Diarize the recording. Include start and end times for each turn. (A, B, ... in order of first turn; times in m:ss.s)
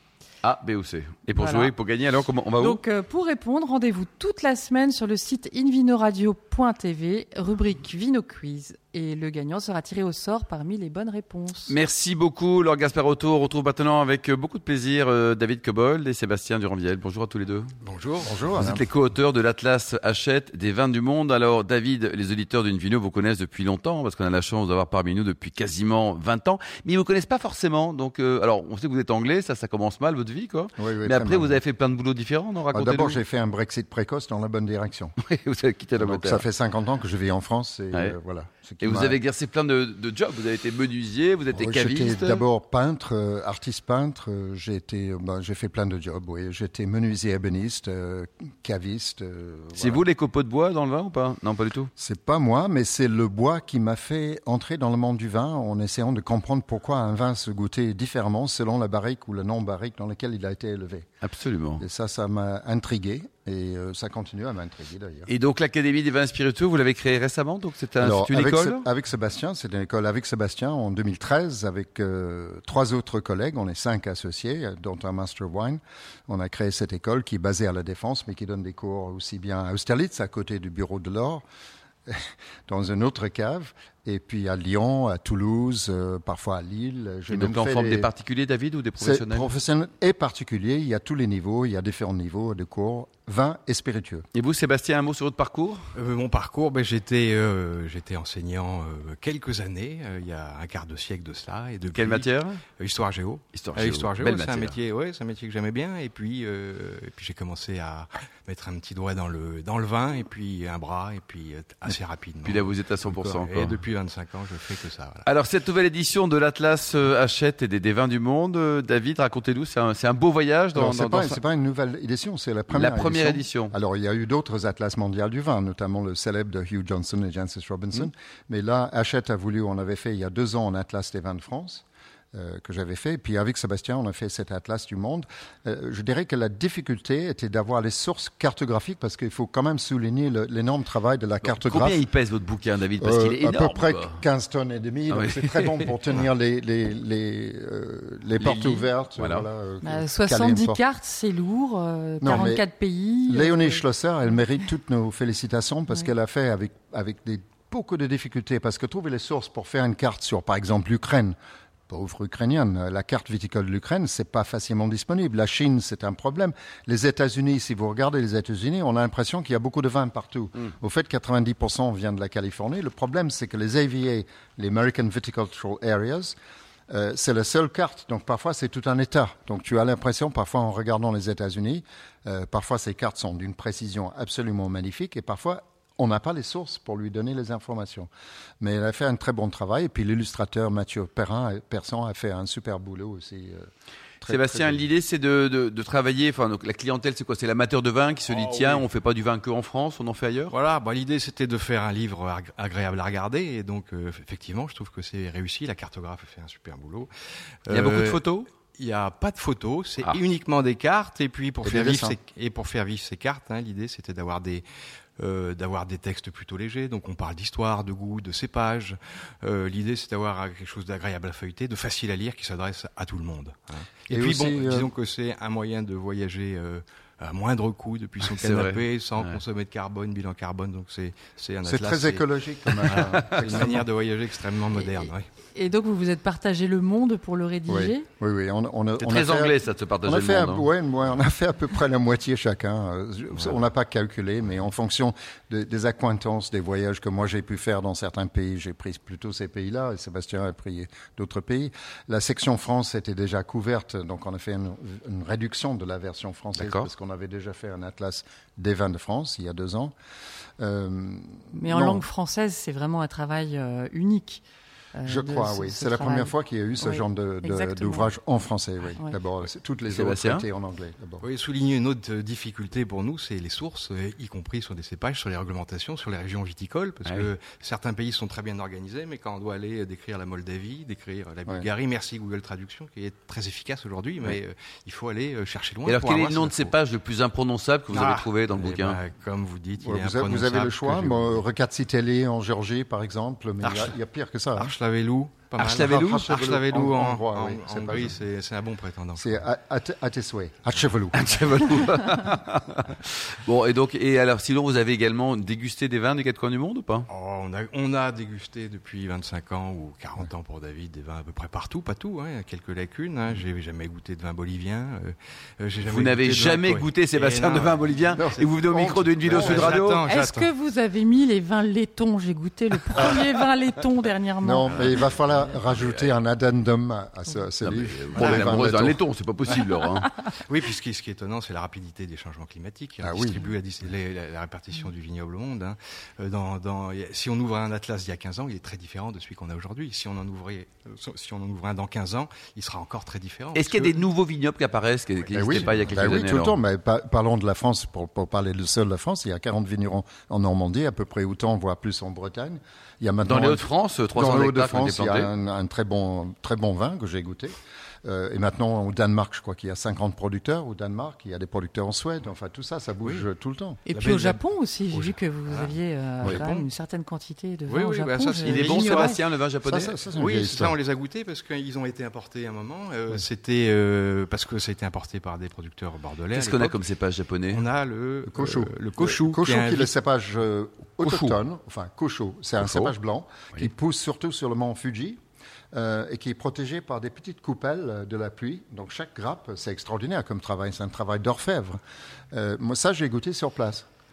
0:00.4-0:02.8 A
0:01.4-0:01.7 B
0:02.6-0:11.7 B
0:11.7-0:17.7 A
0:17.8-0:18.5 C
0:18.2-0:18.8 D
0:18.6-0:33.2 A
0:30.8-0:31.6 D
0:32.7-0:35.1 D
0:35.2-0:36.4 A
0:36.0-0:39.2 D
0:38.8-0:42.4 A
0:41.5-0:50.0 D
0:49.8-0:51.9 A
0:52.0-1:01.1 D
1:01.2-1:01.8 A
1:01.8-1:05.3 D
1:05.3-1:08.8 A
1:08.0-1:21.4 D
1:22.1-1:28.1 D
1:27.3-1:29.5 A
1:29.0-1:34.2 D
1:34.3-1:35.9 A
1:36.0-1:55.3 C
1:41.9-1:42.6 A
1:43.5-1:44.8 A
1:52.4-1:53.8 A
1:55.3-2:01.4 A
2:00.8-2:22.0 D
2:02.7-2:03.7 A
2:21.4-2:24.2 A
2:23.0-2:30.8 D
2:25.1-2:25.9 A
2:28.4-2:29.5 A
2:29.8-2:33.9 B
2:32.2-2:32.7 D
2:33.3-2:41.4 D
2:41.9-2:56.4 D
2:56.9-3:13.7 D
3:14.2-3:14.9 D
3:14.2-3:20.5 A
3:18.2-3:18.9 C
3:20.5-3:27.1 C
3:27.7-3:34.6 C
3:27.7-3:28.4 A
3:31.6-3:32.2 D
3:35.2-3:52.3 C
3:44.1-3:44.9 D
3:48.3-3:49.4 A
3:51.7-3:53.8 D
3:52.8-3:55.3 C
3:54.8-3:58.1 B
3:57.7-4:19.9 D
3:59.0-4:00.7 A
4:16.6-4:16.9 A
4:20.6-4:22.0 D
4:21.5-4:24.4 B
4:25.0-4:28.1 B
4:25.0-4:31.2 D
4:29.9-4:30.5 A
4:31.2-4:46.8 C
4:45.9-4:49.0 A
4:47.9-4:51.5 C
4:49.8-4:54.7 D
4:53.6-4:54.0 C
4:54.6-4:59.4 C
4:55.6-4:56.7 A
4:55.8-4:58.2 D
4:59.2-5:01.2 D
5:01.1-5:07.1 A
5:07.1-5:18.6 C
5:15.8-5:20.0 A
5:18.2-5:19.7 D
5:19.2-5:20.5 C
5:20.0-5:25.1 B
5:24.4-5:29.0 D
5:25.6-5:26.1 A
5:27.6-5:30.1 A
5:28.3-5:28.6 C
5:29.4-5:29.7 C
5:30.4-5:44.1 C
5:33.0-5:33.5 D
5:43.6-5:46.6 A
5:45.2-5:46.1 C
5:45.3-5:53.6 D
5:53.2-5:55.3 A
5:54.2-6:03.8 D
6:03.0-6:03.3 C
6:03.9-6:09.2 B
6:03.9-6:06.7 C
6:07.7-6:09.2 C
6:08.4-6:10.0 A
6:09.6-6:10.8 D
6:10.1-6:16.8 C
6:16.3-6:17.6 A
6:17.5-6:19.9 C
6:18.3-6:25.2 D
6:21.0-6:21.4 A
6:22.6-6:22.9 A
6:25.7-6:31.8 D
6:32.3-6:33.9 D